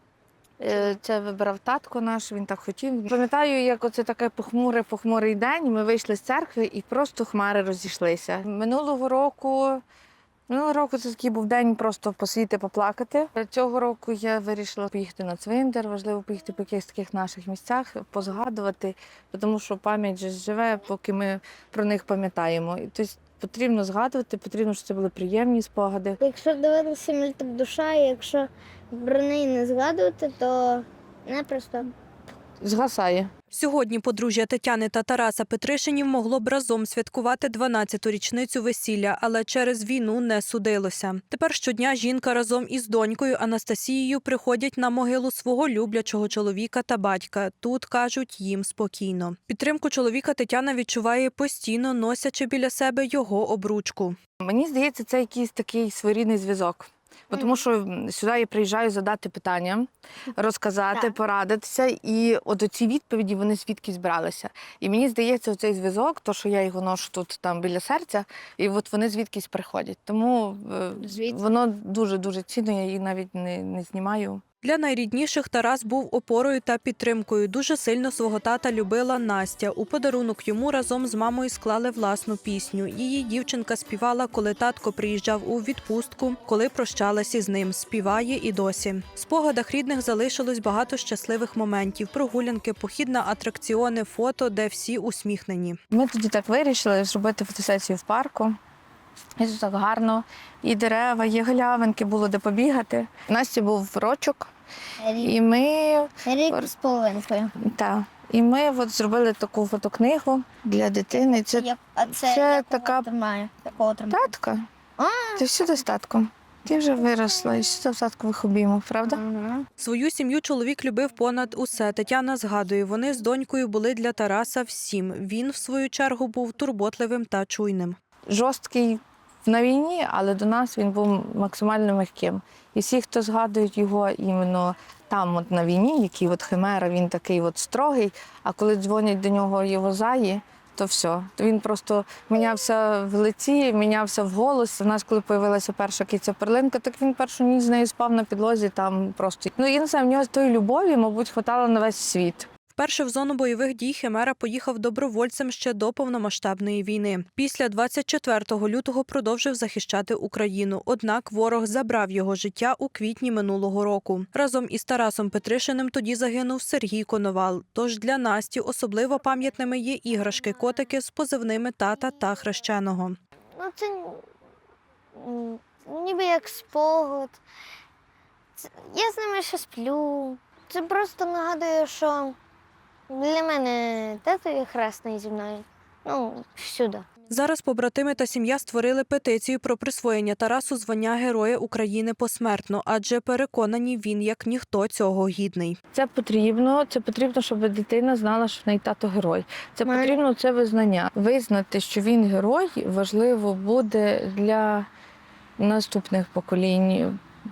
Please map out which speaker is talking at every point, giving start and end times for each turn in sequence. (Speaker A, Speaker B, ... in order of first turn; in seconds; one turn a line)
Speaker A: 0.6-9.8
Speaker A: 10.5-26.2
Speaker B: 26.2-31.9
Speaker A: 32.6-33.3
Speaker C: 33.5-54.2
Speaker A: 54.4-74.4
Speaker B: 57.3-57.6
Speaker B: 71.1-71.3
Speaker C: 74.6-95.8
Speaker A: 95.9-98.6
Speaker A: 99.4-104.5
Speaker B: 105.0-105.3
Speaker A: 105.2-106.7
Speaker B: 106.3-107.5
Speaker A: 107.6-113.1
Speaker B: 111.1-114.3
Speaker A: 114.1-114.7
Speaker B: 115.0-115.5
Speaker A: 115.4-119.2
Speaker B: 119.0-119.7
Speaker C: 119.8-128.0
Speaker A: 128.3-152.5
Speaker C: 152.8-173.2
Speaker B: 173.6-174.3
Speaker B: 175.2-177.4
Speaker B: 178.6-182.4
Speaker B: 183.1-187.1
Speaker C: 187.3-195.8
Speaker A: 195.9-204.9
Speaker B: 199.9-200.2
Speaker A: 205.6-207.2